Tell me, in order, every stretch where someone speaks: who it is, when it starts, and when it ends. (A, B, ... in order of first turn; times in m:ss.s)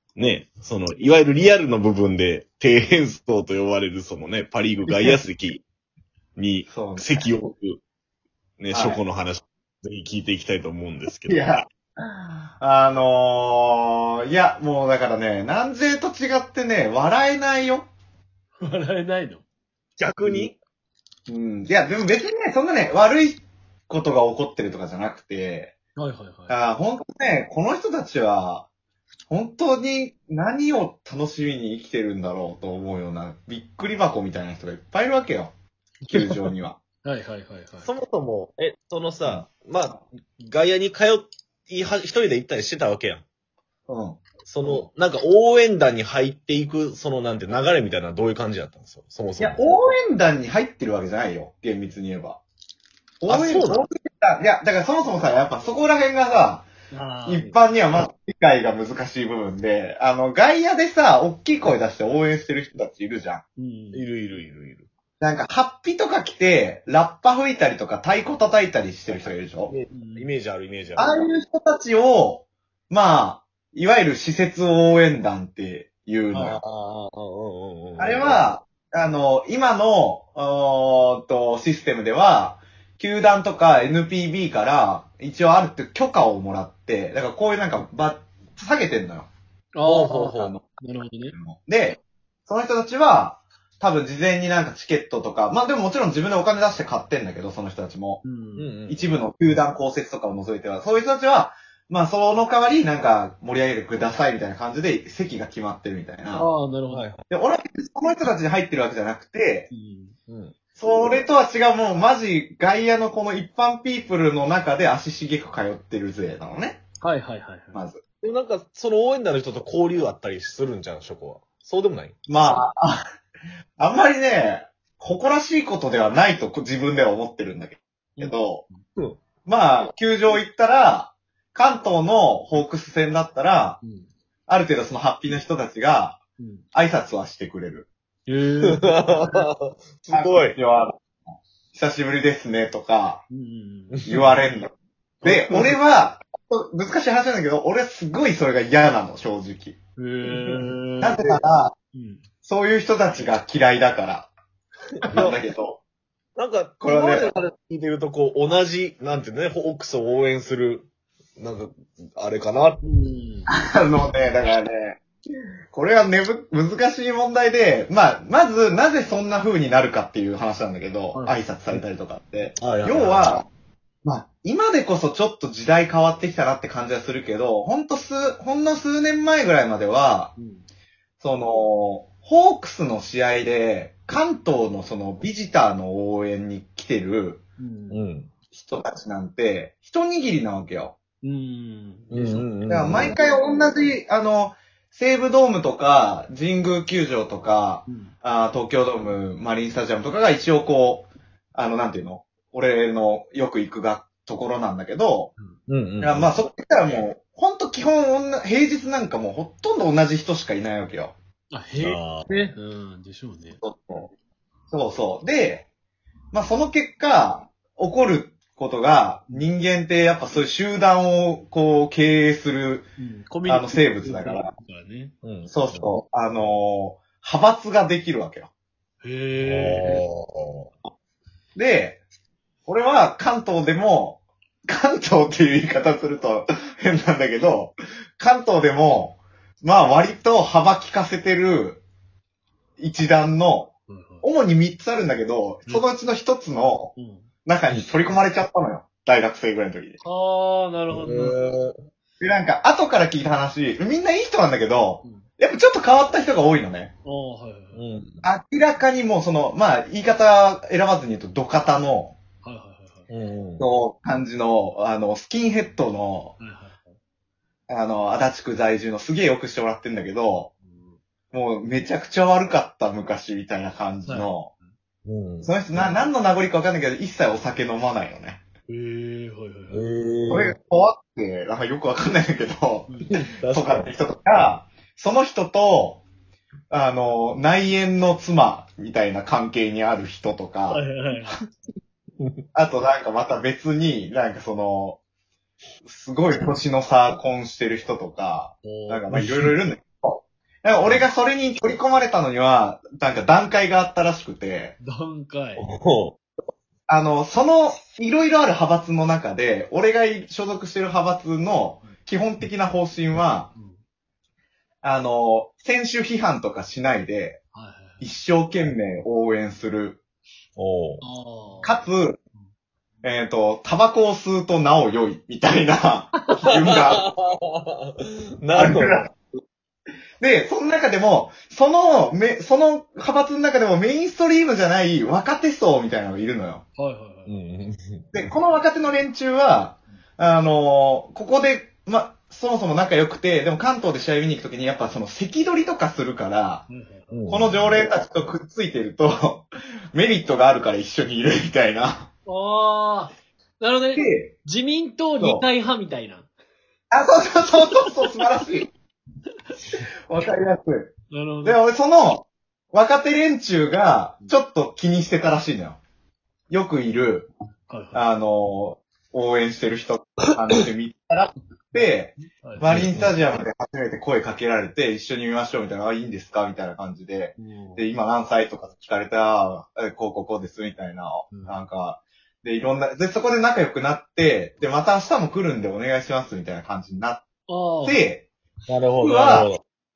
0:00.2-0:05.6 A
0:04.9-0:05.2 B
0:06.4-0:07.8 A
0:06.7-0:07.3 B
0:08.6-0:11.4 A
0:08.7-0:09.0 B
0:11.3-0:17.9 B
0:18.6-0:19.4 C
0:20.0-0:20.6 A
0:20.2-0:20.5 C
0:21.3-0:25.8 B
0:26.0-0:26.6 C
0:26.5-0:28.7 B
0:29.3-0:35.5 B
0:36.0-0:36.5 C
0:36.1-0:36.8 B
0:37.0-0:37.9 C
0:37.8-0:43.2 A
0:43.9-0:44.8 B
0:44.4-0:49.7 A
0:49.4-0:52.4 B
0:53.2-0:56.7 B
0:53.3-0:53.8 A
0:56.9-0:57.5 C
0:57.3-1:03.4 B
1:03.6-1:04.1 C
1:03.9-1:04.9 A
1:05.2-1:09.7 B
1:09.7-1:11.1 A
1:09.9-1:10.3 C
1:11.0-1:16.6 B
1:16.4-1:18.5 A
1:18.0-1:29.3 B
1:29.7-1:31.4 C
1:29.8-1:30.6 A
1:30.4-1:30.8 B
1:31.3-1:38.2 B
1:38.2-1:38.7 C
1:38.6-1:39.1 A
1:38.9-1:46.5 B
1:46.4-1:47.1 C
1:46.9-1:47.3 A
1:47.3-1:49.7 B
1:49.7-1:50.2 C
1:50.3-1:50.6 A
1:50.8-1:56.8 B
1:57.0-1:57.8 C
1:57.7-1:58.0 B
1:58.2-2:02.2 A
2:02.3-2:03.0 B
2:03.8-2:08.6 B
2:08.2-2:08.8 C
2:09.5-2:13.8 B
2:13.8-2:14.1 C
2:14.5-2:16.2 B
2:16.4-2:16.6 C
2:16.7-2:17.9 B
2:18.3-2:19.4 C
2:18.6-2:20.6 A
2:20.1-2:21.0 B
2:21.7-2:23.2 B
2:23.3-2:24.1 C
2:23.9-2:24.3 A
2:24.1-2:29.8 B
2:25.2-2:25.8 A
2:30.0-2:31.2 C
2:30.2-2:30.6 A
2:31.0-2:31.8 B
2:31.9-2:32.2 C
2:32.4-2:34.3 B
2:35.0-2:35.4 A
2:35.1-2:35.8 B
2:36.4-2:42.8 A
2:36.8-2:37.3 B
2:42.8-2:43.5 C
2:43.5-2:45.0 B
2:45.7-2:53.5 B
2:51.1-2:51.4 C
2:52.6-2:53.4 A
2:54.0-3:00.3 B
3:00.4-3:00.6 C
3:01.2-3:07.4 B
3:07.6-3:08.0 C
3:07.9-3:08.3 A
3:08.5-3:11.0 B
3:11.2-3:13.2 C
3:12.1-3:13.1 A
3:12.7-3:25.3 B
3:17.9-3:18.1 C
3:25.7-3:26.4 A
3:26.0-3:31.2 B
3:31.5-3:33.6 C
3:31.8-3:32.3 A
3:33.6-3:34.1 B
3:34.7-3:35.7 B
3:36.3-3:42.9 B
3:43.0-3:45.1 C
3:43.4-3:44.5 B
3:45.2-3:46.0 A
3:45.5-3:48.5 B
3:49.0-3:50.0 C
3:49.4-3:50.7 A
3:51.6-3:52.0 B
3:52.7-4:01.8 B
4:02.8-4:06.9 B
4:03.9-4:04.2 C
4:07.0-4:07.3 C
4:07.4-4:10.0 B
4:10.0-4:11.4 C
4:10.9-4:11.7 A
4:12.2-4:16.9 B
4:17.0-4:17.9 C
4:17.7-4:18.2 A
4:18.2-4:22.2 B
4:22.4-4:23.1 C
4:23.1-4:23.6 A
4:23.6-4:26.4 B
4:26.4-4:26.9 C
4:27.7-4:30.5 B
4:30.6-4:31.0 C
4:31.3-4:34.5 B
4:34.1-4:34.7 C
4:35.0-4:35.9 A
4:35.4-4:38.4 B
4:38.7-4:39.9 C
4:39.7-4:40.6 A
4:40.3-4:46.0 B
4:42.9-4:43.4 C
4:43.4-4:43.9 A
4:46.7-4:50.8 B
4:50.7-4:51.4 C
4:52.6-4:55.0 B
4:55.8-5:04.8 B
4:58.6-4:59.5 C
4:59.2-4:59.4 A
5:04.8-5:05.6 C
5:05.6-5:06.2 A
5:06.9-5:13.5 B
5:13.5-5:13.8 C
5:14.8-5:17.4 B
5:17.5-5:18.0 C
5:18.0-5:20.0 B
5:20.6-5:21.0 A
5:21.0-5:21.9 C
5:21.6-5:22.2 B
5:23.0-5:27.1 B
5:26.5-5:29.0 A
5:28.5-5:29.2 B
5:30.2-5:36.6 B
5:36.8-5:37.4 C
5:37.3-5:38.1 A
5:38.1-5:46.6 B
5:46.7-5:47.1 C
5:47.1-5:47.6 A
5:47.3-5:52.1 B
5:52.3-5:56.3 C
5:54.0-5:54.3 B
5:55.2-5:55.5 B
5:56.9-5:58.7 B
6:00.1-6:00.9 B
6:01.1-6:01.6 C
6:01.4-6:05.8 B
6:06.5-6:07.3 B
6:07.7-6:08.0 C
6:07.9-6:27.3 B
6:12.4-6:12.9 C
6:12.7-6:13.2 A
6:17.4-6:17.9 C
6:21.3-6:21.6 C
6:27.5-6:28.0 C
6:27.8-6:28.3 B
6:28.7-6:29.6 A
6:29.0-6:29.5 B